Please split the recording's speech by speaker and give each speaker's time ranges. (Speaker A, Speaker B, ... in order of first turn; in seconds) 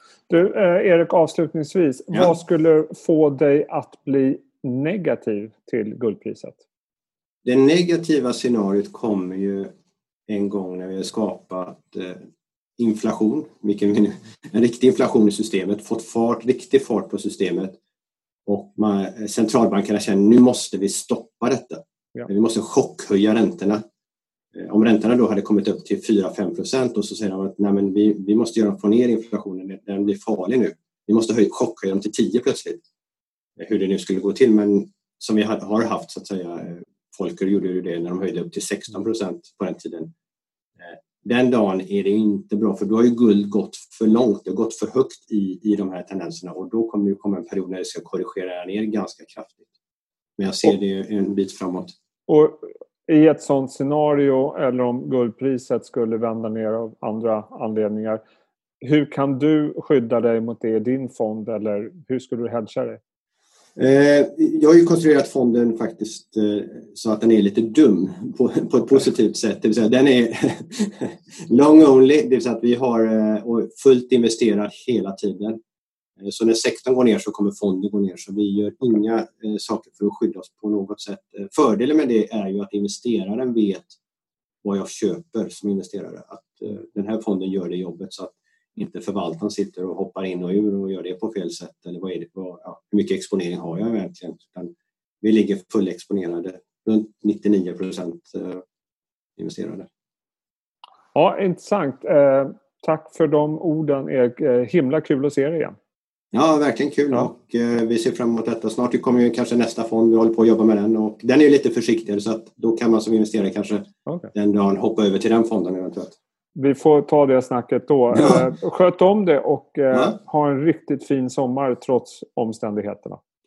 Speaker A: 0.3-6.6, 52.3-58.2, 58.8-63.0, 101.1-105.8, 116.5-123.2
Speaker B: 7.4-9.7, 10.3-12.2, 12.8-17.8, 18.4-23.8, 24.5-32.8, 33.6-40.1, 40.8-49.7, 50.4-51.9, 63.8-75.6, 76.2-84.0, 84.6-98.6, 99.4-99.9, 106.3-116.2, 118.1-118.4